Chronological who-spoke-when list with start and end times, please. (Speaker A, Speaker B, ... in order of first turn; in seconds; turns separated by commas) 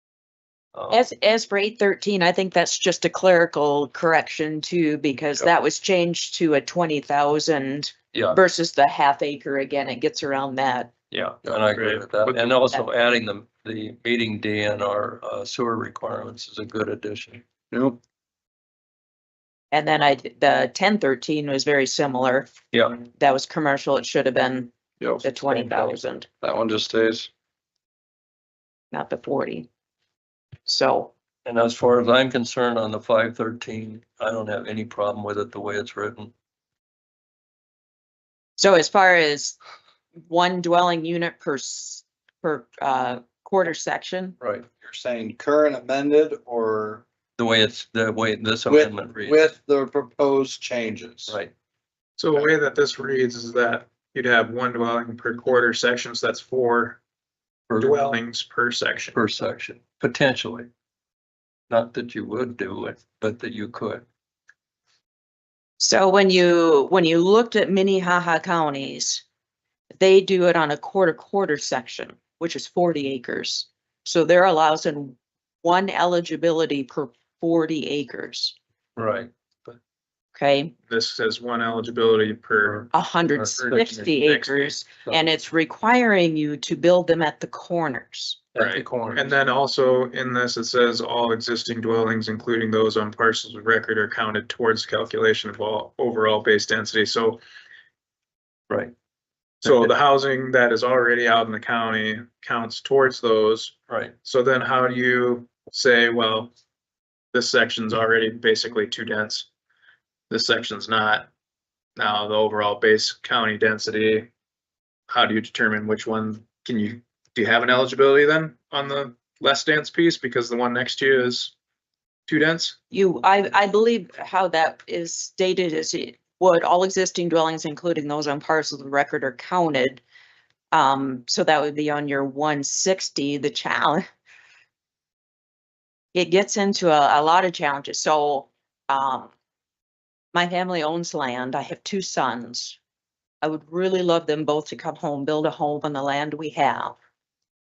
Speaker A: 0.8-1.0, Speaker B: 0.9-10.9, Speaker A: 8.1-8.4, Speaker A: 11.1-17.4, Speaker C: 11.7-12.5, Speaker D: 17.7-18.0, Speaker B: 19.7-22.5, Speaker A: 22.7-23.0, Speaker B: 23.0-24.7, Speaker D: 25.0-27.3, Speaker B: 25.2-26.3, Speaker B: 28.9-29.7, Speaker B: 30.7-31.1, Speaker A: 31.4-36.3, Speaker B: 38.6-39.6, Speaker B: 40.2-44.4, Speaker A: 44.4-44.7, Speaker D: 44.8-47.0, Speaker A: 47.4-49.4, Speaker D: 48.7-51.4, Speaker C: 52.2-57.0, Speaker A: 57.7-58.1, Speaker C: 57.7-59.2, Speaker A: 59.1-60.7, Speaker A: 61.7-64.0, Speaker B: 65.8-69.2, Speaker B: 70.0-78.5, Speaker A: 79.0-79.8, Speaker B: 80.3-80.8, Speaker C: 80.9-82.9, Speaker A: 82.7-83.8, Speaker B: 82.9-88.5, Speaker C: 83.6-84.7, Speaker A: 88.5-89.3, Speaker C: 88.5-97.4, Speaker C: 99.6-106.5, Speaker C: 107.3-109.5, Speaker C: 110.3-111.3, Speaker C: 112.0-114.3, Speaker C: 115.1-121.5, Speaker C: 122.3-122.8, Speaker B: 122.9-130.0, Speaker B: 130.7-134.0, Speaker B: 136.1-139.3, Speaker B: 140.3-142.8, Speaker B: 143.4-146.9